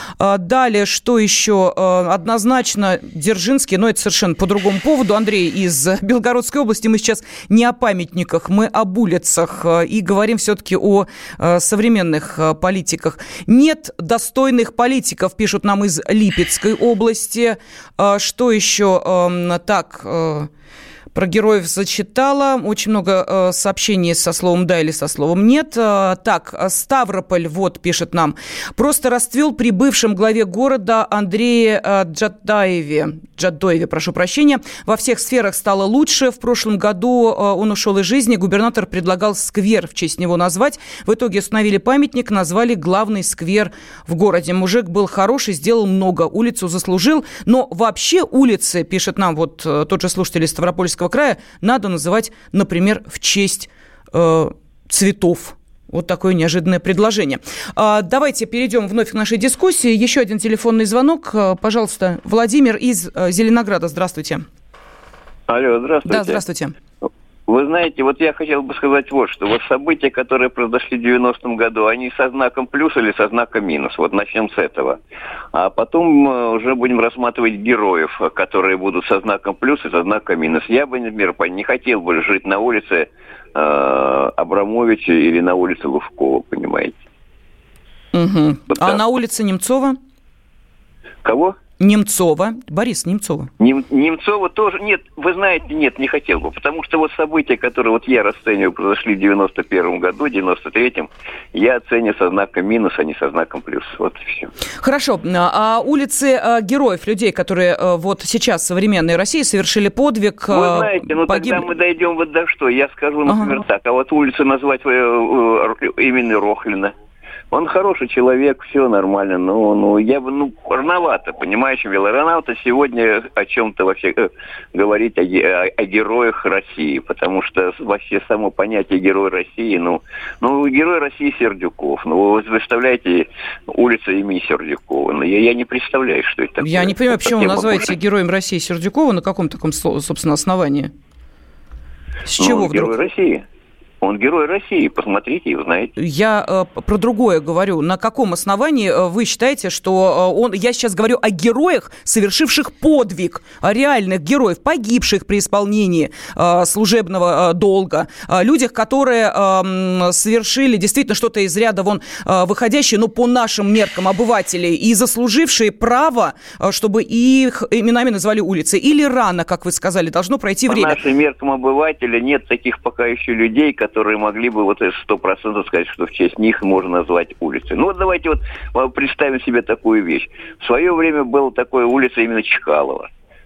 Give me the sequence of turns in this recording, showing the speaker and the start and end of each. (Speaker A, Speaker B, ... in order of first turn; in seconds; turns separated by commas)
Speaker A: 0.2-20.5, Speaker A: 21.1-64.5, Speaker B: 65.5-66.4, Speaker A: 66.1-66.7, Speaker B: 67.5-75.0, Speaker B: 75.5-87.0, Speaker A: 88.1-90.0, Speaker B: 91.2-91.6, Speaker A: 91.8-93.5, Speaker B: 93.6-104.5, Speaker A: 104.8-111.7, Speaker B: 110.5-116.9, Speaker A: 113.3-113.6, Speaker B: 117.5-137.9, Speaker A: 136.6-140.9, Speaker A: 142.3-143.0, Speaker B: 142.4-143.4, Speaker B: 144.0-145.9, Speaker A: 146.0-171.0, Speaker B: 170.7-183.1